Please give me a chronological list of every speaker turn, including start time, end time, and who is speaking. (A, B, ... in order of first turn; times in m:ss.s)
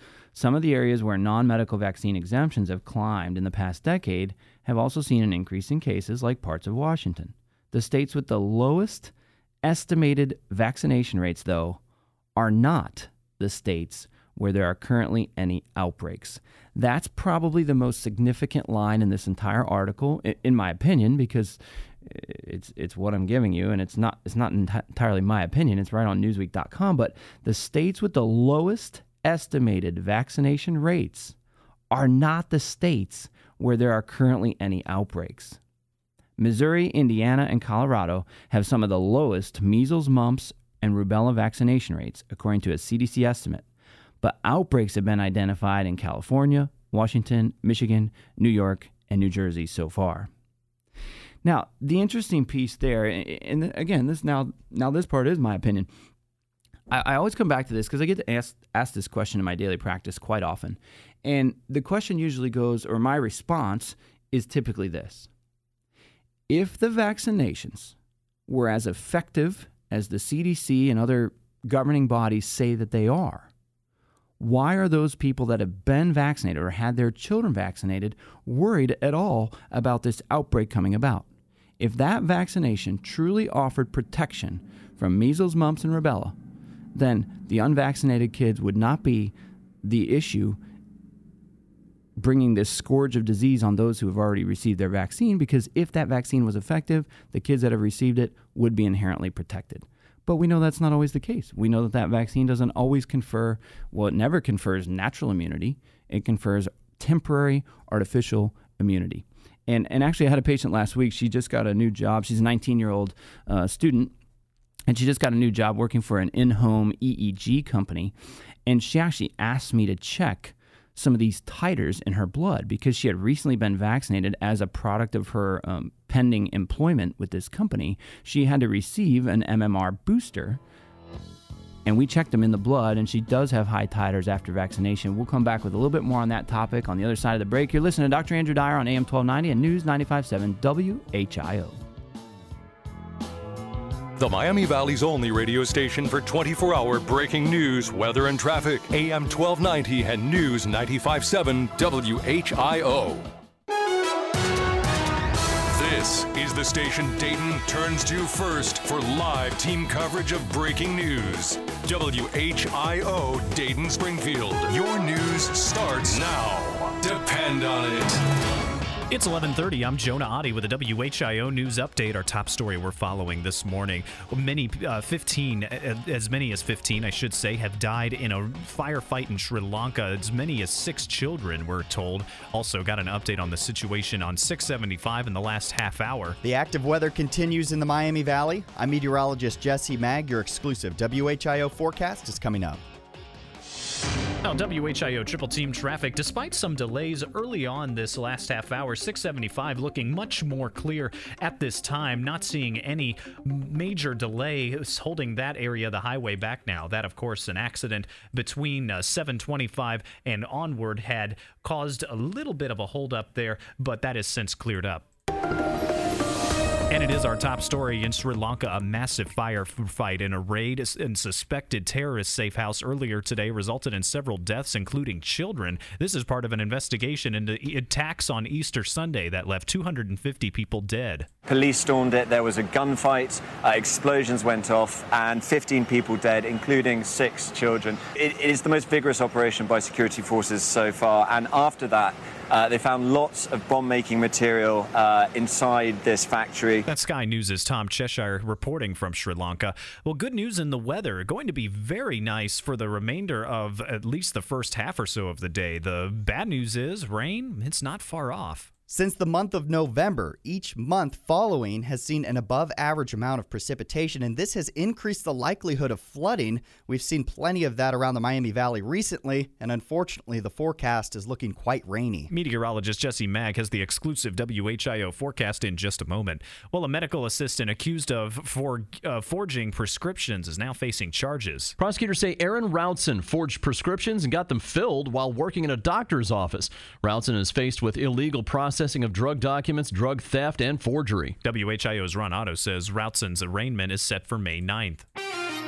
0:00.3-0:11.8 A
0:12.4-0:31.4 A
0:31.9-0:35.6 A
0:36.4-0:43.6 A
0:44.2-0:50.3 A
0:51.4-0:55.9 A
0:56.9-1:05.3 A
1:06.5-1:07.9 A
1:08.5-1:13.5 A
1:14.4-1:21.3 A
1:21.8-1:26.4 A
1:26.9-1:30.6 A
1:32.2-1:54.1 A
1:54.9-1:58.1 A
1:58.6-2:10.6 A
2:11.8-2:21.8 A
2:24.2-2:33.3 B
2:35.7-2:48.2 B
2:49.1-3:06.4 C
3:06.4-3:12.8 D
3:14.4-3:35.0 C
3:36.9-3:51.3 C
3:51.4-4:06.8 E
4:06.9-4:18.7 C
4:18.9-4:32.3 D
4:32.3-4:41.8 C
4:41.8-4:51.4 F
4:51.4-4:55.0 C